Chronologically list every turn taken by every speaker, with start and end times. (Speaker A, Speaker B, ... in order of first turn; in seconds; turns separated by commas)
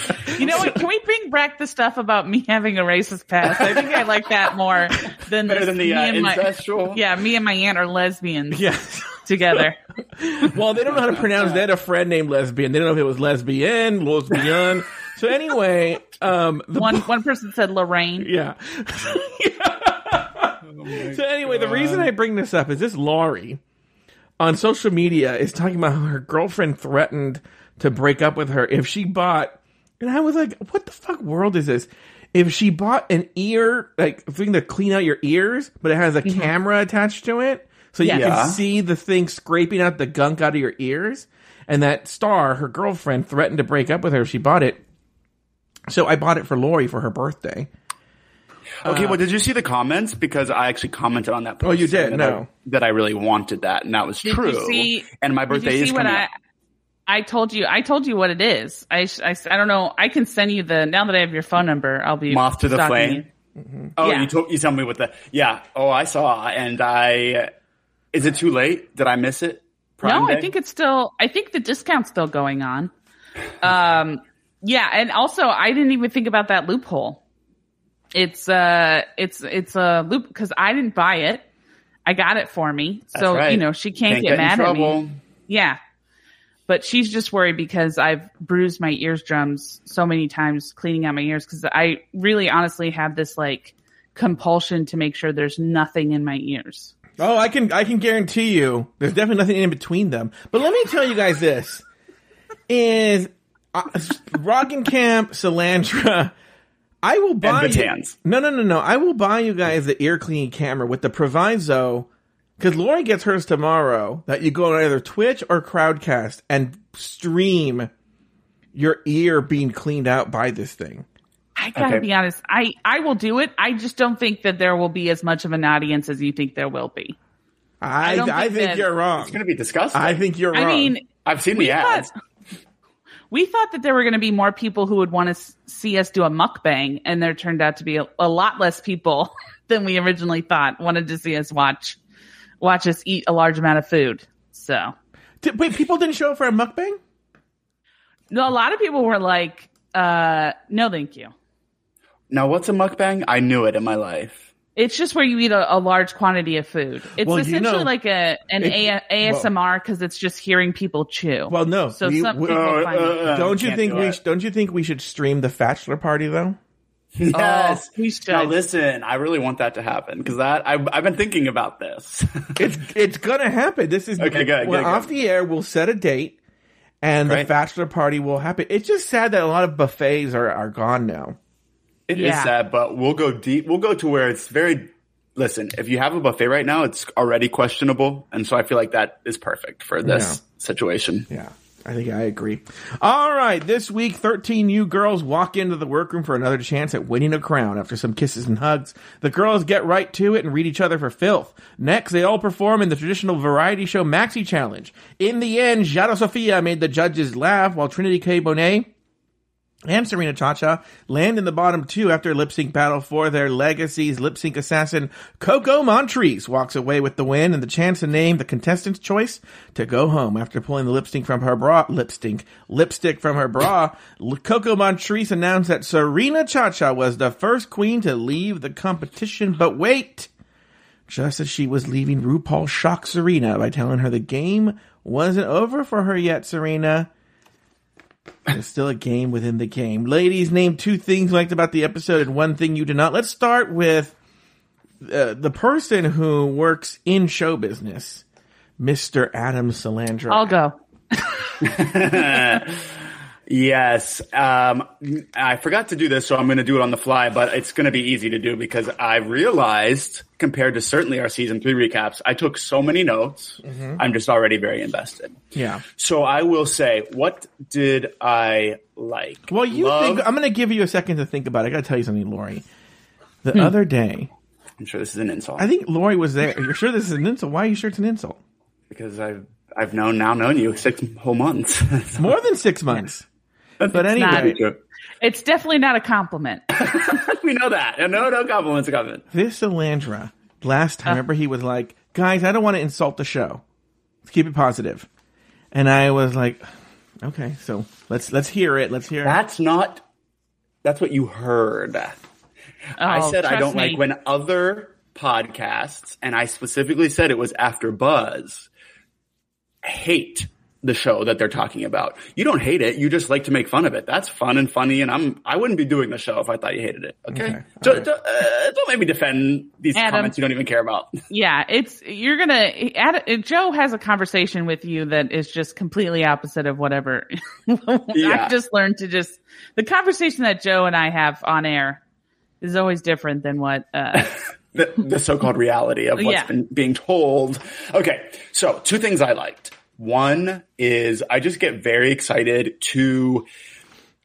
Speaker A: 0.3-8.6, Speaker B: 0.4-0.7, Speaker C: 5.5-7.0, Speaker B: 8.5-17.1, Speaker A: 9.2-9.8, Speaker C: 11.2-11.6, Speaker A: 16.7-18.3, Speaker B: 18.2-23.6, Speaker C: 20.6-22.1, Speaker B: 24.4-44.8, Speaker A: 36.2-36.5, Speaker A: 38.0-38.4, Speaker C: 38.1-38.6, Speaker B: 45.9-47.7, Speaker C: 48.8-56.2, Speaker B: 48.8-49.2, Speaker B: 51.6-52.5, Speaker A: 54.2-56.3, Speaker A: 57.1-63.2, Speaker C: 62.3-63.2, Speaker B: 63.6-63.9, Speaker C: 64.0-67.5, Speaker A: 64.0-64.3, Speaker C: 68.1-70.5, Speaker A: 70.0-72.9, Speaker A: 73.6-77.2, Speaker A: 78.1-81.5, Speaker A: 82.0-85.8, Speaker C: 83.1-85.2, Speaker A: 86.7-96.9, Speaker B: 97.2-101.8, Speaker B: 102.7-106.3, Speaker B: 107.0-112.1, Speaker C: 107.4-108.1, Speaker B: 112.6-117.9, Speaker B: 118.7-121.0, Speaker A: 121.6-127.2, Speaker C: 121.8-122.0, Speaker B: 127.8-129.4, Speaker A: 128.0-128.9, Speaker C: 129.2-130.2, Speaker B: 129.9-130.9, Speaker A: 130.5-131.1, Speaker C: 131.2-132.1, Speaker A: 131.6-132.1, Speaker A: 133.3-142.0, Speaker A: 142.6-144.9, Speaker B: 145.4-147.0, Speaker A: 148.3-151.3, Speaker C: 152.3-154.5, Speaker A: 154.8-163.2, Speaker B: 157.2-157.9, Speaker B: 158.6-159.5, Speaker B: 161.5-166.6, Speaker C: 162.4-164.2, Speaker C: 167.2-172.6, Speaker A: 167.3-168.5, Speaker B: 172.6-176.4, Speaker C: 174.2-175.1, Speaker B: 177.0-181.4, Speaker C: 182.1-191.3, Speaker A: 182.1-182.5, Speaker B: 190.0-190.4, Speaker B: 191.3-208.9, Speaker B: 209.8-230.3, Speaker B: 231.1-237.1, Speaker B: 238.5-244.1, Speaker B: 245.0-248.2, Speaker B: 248.8-250.5, Speaker A: 250.3-251.6, Speaker C: 251.6-252.9, Speaker C: 253.5-265.4, Speaker B: 263.6-264.0, Speaker B: 265.5-265.8, Speaker C: 266.0-270.2, Speaker B: 269.5-272.6, Speaker B: 273.4-274.3, Speaker C: 274.8-275.7, Speaker B: 275.6-278.4, Speaker C: 278.9-282.3, Speaker B: 282.2-283.2, Speaker C: 283.8-284.8, Speaker B: 283.9-284.6, Speaker A: 284.1-284.6, Speaker A: 285.2-286.6, Speaker C: 286.7-289.2, Speaker B: 289.3-293.6, Speaker B: 294.2-295.1, Speaker B: 295.7-296.7, Speaker B: 297.2-299.4, Speaker C: 299.2-300.0, Speaker C: 300.8-302.2, Speaker A: 303.0-304.0, Speaker C: 303.0-308.7, Speaker C: 309.8-321.2, Speaker B: 317.3-318.1, Speaker A: 319.9-320.3, Speaker A: 321.3-332.0, Speaker C: 328.1-328.6, Speaker A: 332.6-334.3, Speaker C: 334.1-343.5, Speaker A: 336.1-336.5